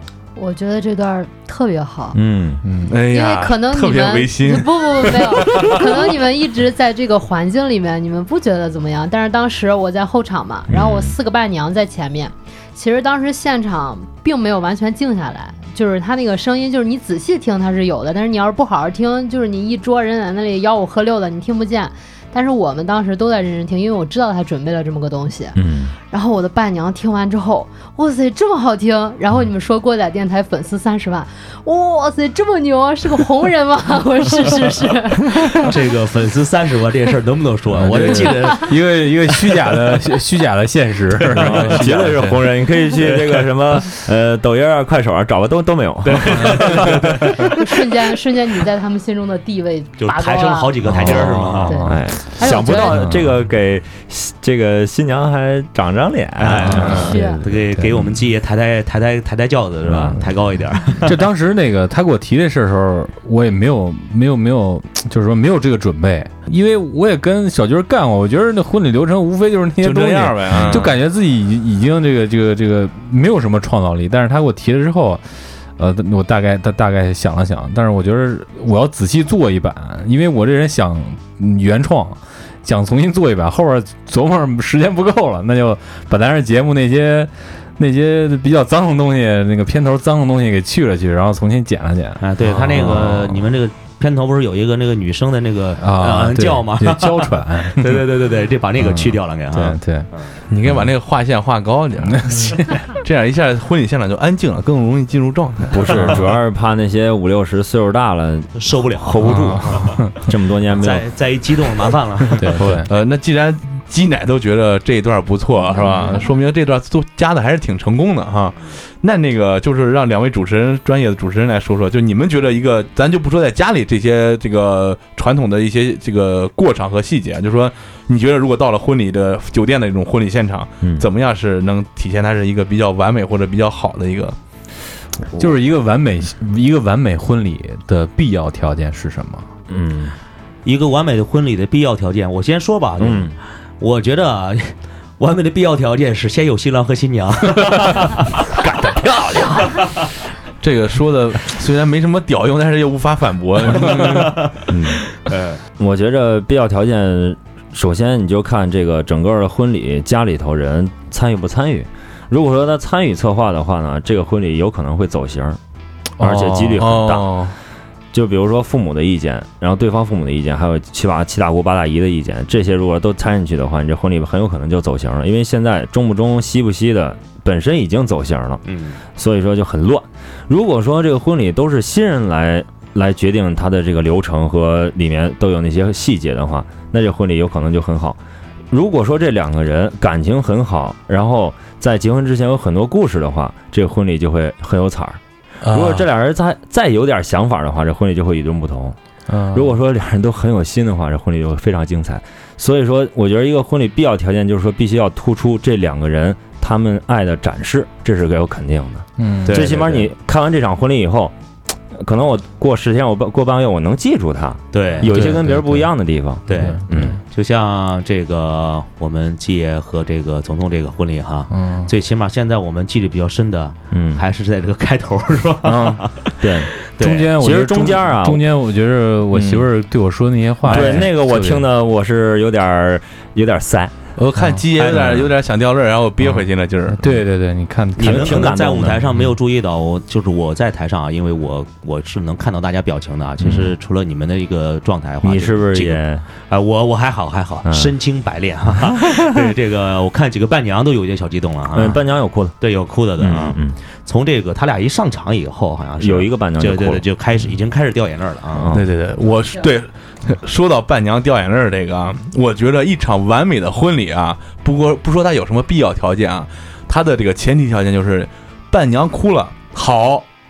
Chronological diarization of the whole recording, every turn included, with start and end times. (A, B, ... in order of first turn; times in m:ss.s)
0:00.4-0:02.2 A
0:02.1-0:02.6 B
0:02.6-0:03.0 C
0:02.9-0:25.6 A
0:02.9-0:06.0 D
0:10.7-0:11.2 B
0:25.6-0:26.0 B
0:26.1-0:35.8 A
0:35.6-0:38.7 E
0:37.8-0:42.1 C
0:41.3-0:42.4 D
0:41.4-0:47.2 B
0:43.0-0:43.5 E
0:46.0-0:47.5 E
0:47.4-0:53.1 A
0:50.0-0:51.8 E
0:50.8-0:52.0 C
0:51.0-0:57.2 B
0:52.7-0:53.3 C
0:56.4-1:01.2 E
0:56.5-0:58.0 C
0:57.0-0:57.5 A
1:01.0-1:15.2 C
1:09.8-1:11.0 D
1:15.8-1:33.5 C
1:32.2-1:40.4 E
1:35.8-1:38.1 C
1:38.8-1:40.1 C
1:40.5-1:46.2 D
1:42.0-1:42.8 C
1:45.7-1:51.1 B
1:48.6-1:50.0 E
1:49.2-1:50.1 C
1:50.8-1:52.5 E
1:52.4-1:52.9 C
1:52.9-2:14.4 D
2:10.8-2:11.1 B
2:15.4-2:19.5 C
2:19.7-2:20.2 B
2:20.6-2:28.4 E
2:23.0-2:23.4 B
2:29.6-2:30.0 E
2:30.6-2:34.4 D
2:34.0-2:34.5 E
2:34.7-2:35.0 B
2:35.2-2:35.6 E
2:35.8-2:45.6 B
2:46.2-2:46.9 C
2:46.2-2:47.4 B
2:46.8-2:47.6 D
2:48.1-2:58.6 B
2:58.6-2:59.0 E
2:59.2-3:08.2 B
3:08.7-3:19.0 B
3:15.6-3:16.1 D
3:19.3-3:19.8 C
3:19.5-3:31.4 B
3:29.2-3:29.7 C
3:29.5-3:30.1 E
3:31.9-3:37.2 B
3:34.7-3:35.1 E
3:35.0-3:35.9 C
3:36.5-3:47.3 E
3:36.5-3:37.2 C
3:41.5-3:41.9 C
3:43.9-3:44.2 B
3:45.6-3:46.7 B
3:47.0-3:51.7 C
3:47.4-3:48.5 B
3:49.3-3:49.7 B
3:50.7-3:53.9 B
3:50.7-3:51.1 D
3:54.2-3:57.0 D
3:54.4-3:54.6 C
3:54.8-3:55.2 E
3:56.9-3:58.6 C
3:58.0-4:12.0 E
3:58.0-3:59.2 B
4:03.4-4:03.7 B
4:05.2-4:06.2 B
4:07.6-4:07.9 B
4:08.7-4:09.5 B
4:11.7-4:12.6 B
4:12.6-4:18.8 E
4:13.2-4:13.8 B
4:16.0-4:17.0 B
4:18.5-4:18.9 B
4:18.7-4:30.3 D